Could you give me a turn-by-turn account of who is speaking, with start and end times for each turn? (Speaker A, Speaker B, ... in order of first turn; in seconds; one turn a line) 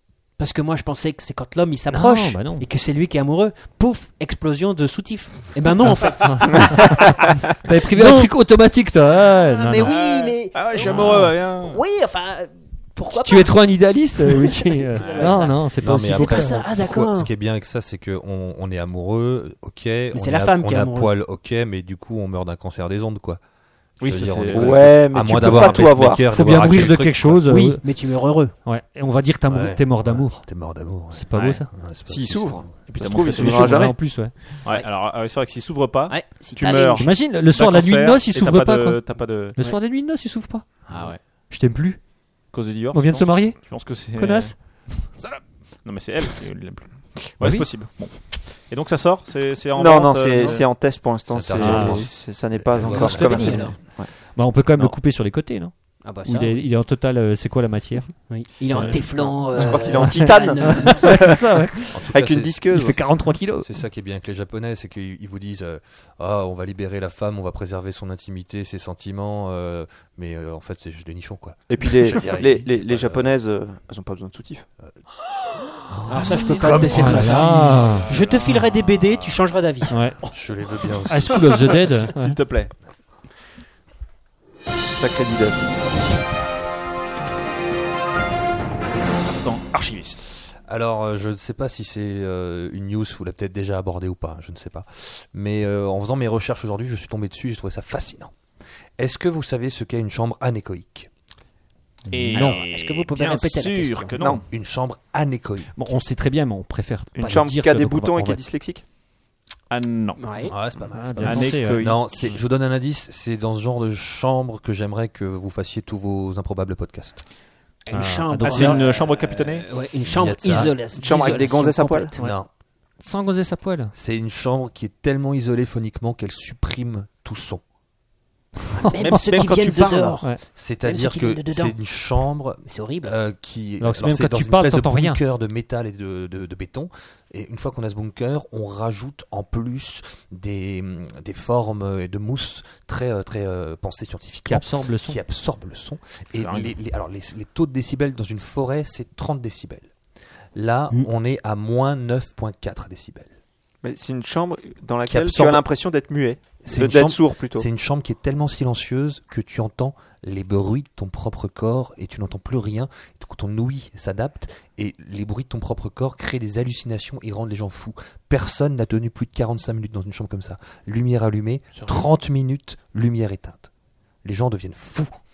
Speaker A: 0.4-8.3
Speaker B: 1.9-2.7
Speaker B: 6.2-6.9
Speaker B: 7.6-9.9
Speaker A: 9.4-17.3
Speaker C: 9.8-11.8
Speaker B: 13.2-16.6
Speaker C: 15.0-15.5
Speaker D: 15.7-23.4
Speaker A: 20.1-21.1
Speaker C: 24.0-25.0
Speaker D: 24.0-27.7
Speaker E: 24.5-26.3
Speaker B: 26.3-27.9
Speaker A: 27.5-28.5
Speaker B: 28.6-31.7
Speaker D: 29.5-32.8
Speaker E: 32.1-34.0
Speaker C: 32.9-33.9
Speaker B: 33.3-34.3
Speaker C: 34.6-39.6
Speaker A: 36.1-37.1
Speaker B: 37.0-40.9
Speaker C: 40.9-41.2
Speaker B: 41.5-42.0
Speaker C: 42.5-50.6
Speaker B: 42.9-44.5
Speaker B: 47.4-47.7
Speaker E: 49.8-54.1
Speaker D: 51.3-53.6
Speaker B: 51.6-52.1
Speaker B: 52.8-53.8
Speaker A: 52.9-53.8
Speaker B: 54.4-59.0
Speaker A: 56.0-56.6
Speaker A: 58.3-61.3
Speaker E: 59.1-63.0
Speaker B: 59.7-62.0
Speaker D: 61.9-73.3
Speaker B: 62.7-63.7
Speaker E: 71.7-74.7
Speaker D: 75.9-78.2
Speaker A: 76.1-80.0
Speaker C: 76.3-77.0
Speaker B: 76.8-78.1
Speaker C: 77.8-79.4
Speaker B: 79.9-80.2
Speaker D: 80.3-81.8
Speaker B: 81.1-82.4
Speaker C: 82.0-82.7
Speaker E: 84.9-85.7
Speaker C: 89.2-90.3
Speaker D: 90.7-98.3
Speaker D: 99.0-101.1
Speaker B: 102.1-102.5
Speaker C: 102.1-104.4
Speaker A: 102.3-104.2
Speaker D: 104.3-105.7
Speaker B: 105.8-108.4
Speaker E: 107.2-108.8
Speaker C: 109.7-110.5
Speaker A: 110.2-110.5
Speaker D: 110.5-117.2
Speaker B: 110.9-111.8
Speaker C: 111.2-112.0
Speaker E: 111.3-112.0
Speaker A: 117.9-122.2
Speaker B: 117.9-118.8
Speaker C: 118.4-119.7
Speaker D: 120.0-121.3
Speaker E: 120.9-122.1
Speaker D: 122.1-122.5
Speaker B: 123.0-123.9
Speaker D: 123.9-127.6
Speaker B: 128.7-129.0
Speaker A: 128.8-132.0
Speaker C: 129.0-130.2
Speaker D: 130.3-149.9
Speaker A: 132.6-133.2
Speaker B: 133.8-135.2
Speaker B: 144.5-145.2
Speaker C: 146.3-146.7
Speaker D: 150.6-153.3
Speaker E: 153.8-157.7
Speaker D: 155.1-155.6
Speaker D: 156.6-173.7
Speaker C: 171.7-172.1
Speaker D: 174.2-175.2